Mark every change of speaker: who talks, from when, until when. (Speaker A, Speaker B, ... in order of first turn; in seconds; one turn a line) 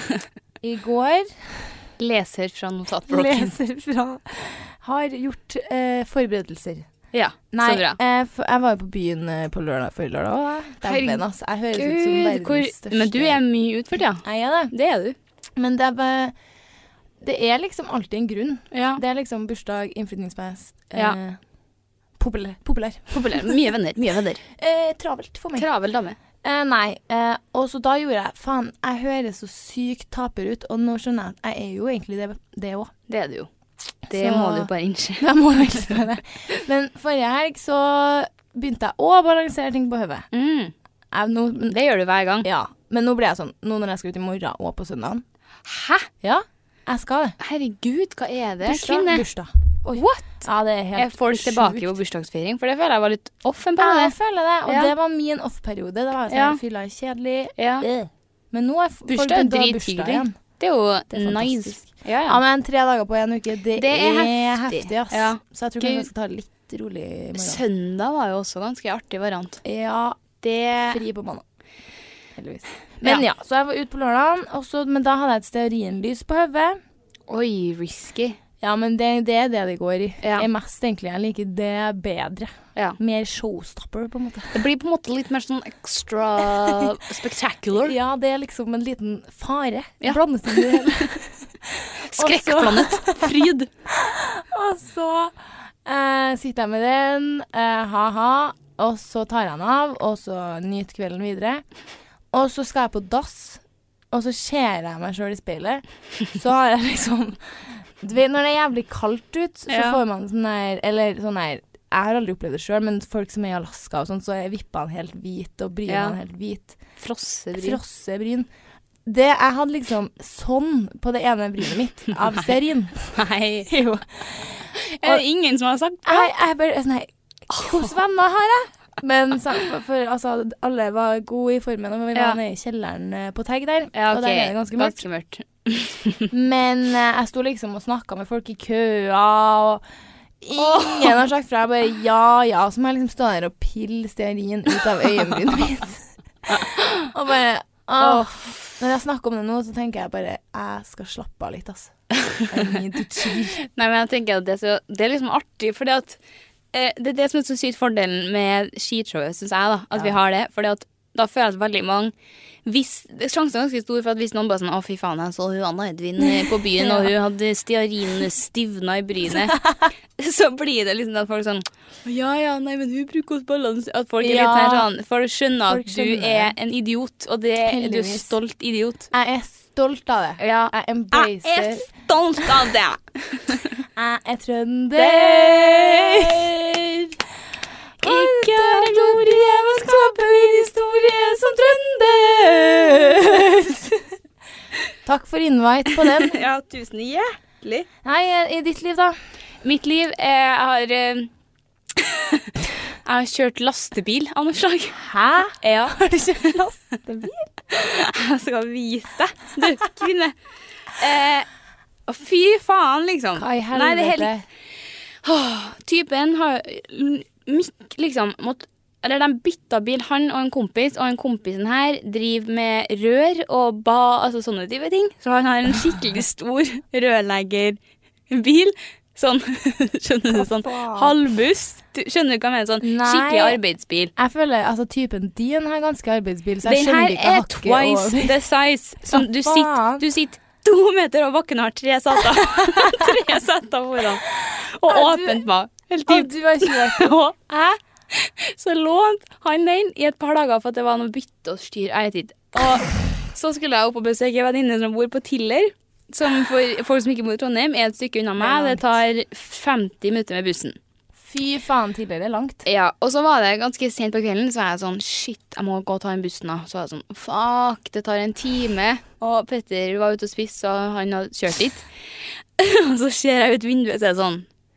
Speaker A: 0.6-1.7
Speaker B: 2.0-3.5
Speaker A: 3.1-6.9
Speaker B: 7.1-8.0
Speaker A: 7.5-13.4
Speaker B: 10.8-11.2
Speaker B: 11.7-15.2
Speaker A: 14.2-14.7
Speaker A: 15.6-16.3
Speaker A: 17.2-21.4
Speaker B: 18.7-19.0
Speaker A: 22.2-23.6
Speaker B: 23.1-24.4
Speaker A: 24.5-25.7
Speaker B: 25.6-26.2
Speaker A: 26.4-32.9
Speaker B: 33.1-33.5
Speaker B: 34.1-35.3
Speaker A: 34.1-40.3
Speaker B: 40.3-40.7
Speaker A: 41.1-41.8
Speaker B: 41.7-42.5
Speaker A: 42.4-45.2
Speaker B: 45.6-46.1
Speaker A: 46.2-47.4
Speaker B: 47.4-49.2
Speaker A: 48.6-52.0
Speaker B: 49.9-54.9
Speaker A: 53.8-60.3
Speaker B: 56.3-56.6
Speaker B: 57.6-57.9
Speaker B: 59.1-62.4
Speaker A: 61.1-67.6
Speaker B: 63.8-66.1
Speaker B: 67.4-69.6
Speaker A: 69.6-71.4
Speaker A: 72.3-76.8
Speaker B: 77.3-78.4
Speaker A: 78.6-84.6
Speaker B: 80.2-80.5
Speaker B: 84.5-88.0
Speaker A: 87.8-101.6
Speaker B: 90.0-91.1
Speaker B: 92.0-93.7
Speaker A: 102.3-116.8
Speaker B: 109.7-110.0
Speaker B: 115.9-116.2
Speaker B: 117.0-117.8
Speaker A: 117.5-118.5
Speaker A: 119.0-125.2
Speaker B: 123.1-123.7
Speaker B: 124.8-126.3
Speaker A: 126.0-135.0
Speaker B: 127.5-127.8
Speaker B: 133.9-136.3
Speaker A: 136.3-139.8
Speaker A: 140.4-153.6
Speaker B: 140.6-141.2
Speaker B: 146.5-146.9
Speaker B: 148.0-148.6
Speaker B: 153.6-156.2
Speaker B: 156.7-162.1
Speaker B: 162.7-169.6
Speaker A: 166.2-167.1
Speaker A: 169.3-169.9
Speaker B: 170.2-179.1
Speaker A: 174.2-174.9
Speaker A: 175.7-176.5
Speaker A: 177.7-178.3
Speaker A: 179.1-181.9
Speaker B: 180.4-183.8
Speaker A: 183.9-186.5
Speaker B: 184.9-187.1
Speaker A: 188.0-194.1
Speaker B: 188.0-193.5
Speaker A: 195.0-196.4
Speaker B: 196.2-197.9
Speaker A: 198.0-199.2
Speaker B: 199.6-201.3
Speaker B: 202.0-202.4
Speaker B: 203.0-205.0
Speaker A: 204.9-207.5
Speaker B: 205.6-206.0
Speaker B: 207.7-210.3
Speaker B: 211.0-211.5
Speaker B: 212.1-214.3
Speaker A: 213.3-214.4
Speaker B: 215.2-227.8
Speaker B: 228.3-234.1
Speaker A: 230.3-231.2
Speaker A: 232.8-233.6
Speaker A: 234.2-238.4
Speaker B: 236.6-260.8
Speaker A: 239.1-240.0
Speaker A: 242.4-243.2
Speaker A: 244.8-245.5
Speaker A: 246.1-247.1
Speaker A: 258.4-259.0
Speaker A: 261.2-262.6
Speaker B: 262.6-271.9
Speaker B: 272.6-274.5